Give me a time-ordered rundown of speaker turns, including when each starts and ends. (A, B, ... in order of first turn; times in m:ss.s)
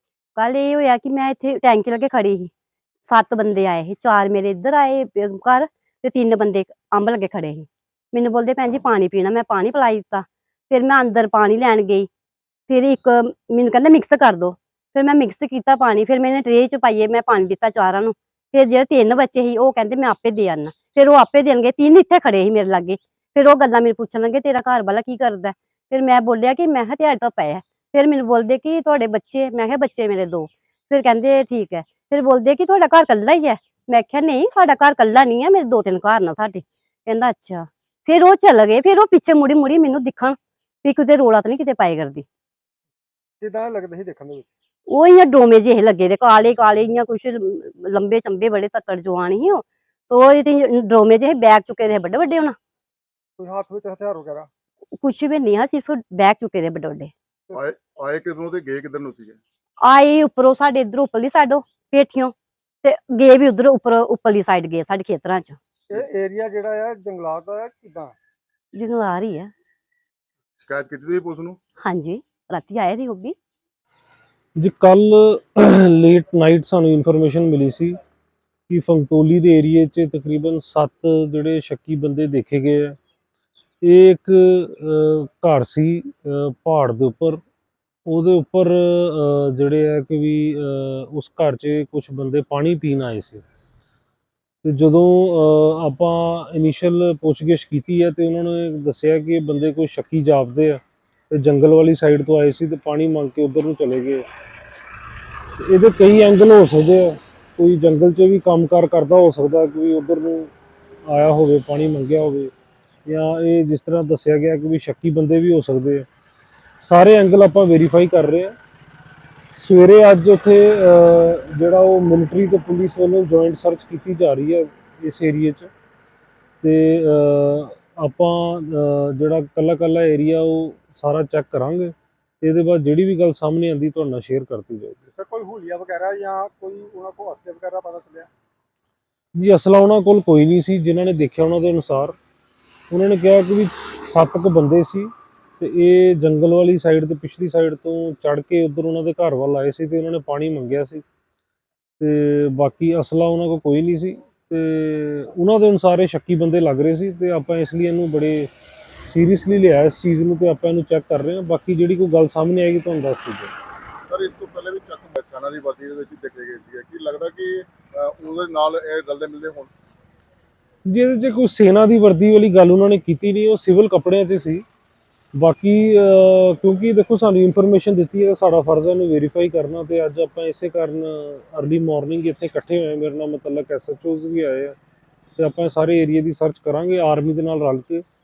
0:00.4-0:02.5 A
0:03.1-0:12.1 A
0:12.7-0:42.2 A
0:43.4-0:44.5 B
0:44.9-0:52.6 A
0:53.4-0:54.5 B
0:55.0-0:57.1 A
0:57.6-0:59.4 C
0:59.8-1:05.6 A
1:05.9-1:08.1 B
1:08.7-1:09.5 A
1:10.6-1:11.6 C
1:11.8-1:13.3 A
1:14.6-1:18.0 D
1:18.7-1:23.0 D
1:23.8-1:27.4 D
1:28.0-1:33.4 D
1:34.6-1:44.2 D
1:45.6-1:50.5 D
1:51.1-1:52.5 D
1:53.0-1:56.0 D
1:56.8-1:58.5 D
1:59.5-2:05.7 D
2:06.6-2:15.0 D
2:15.1-2:18.3 B
2:19.4-2:22.2 D
2:22.9-2:31.0 D
2:32.0-2:38.5 D
2:39.1-2:43.5 D
2:44.1-2:49.7 C
2:50.9-2:54.6 D
2:55.4-3:04.8 D
3:05.4-3:08.0 D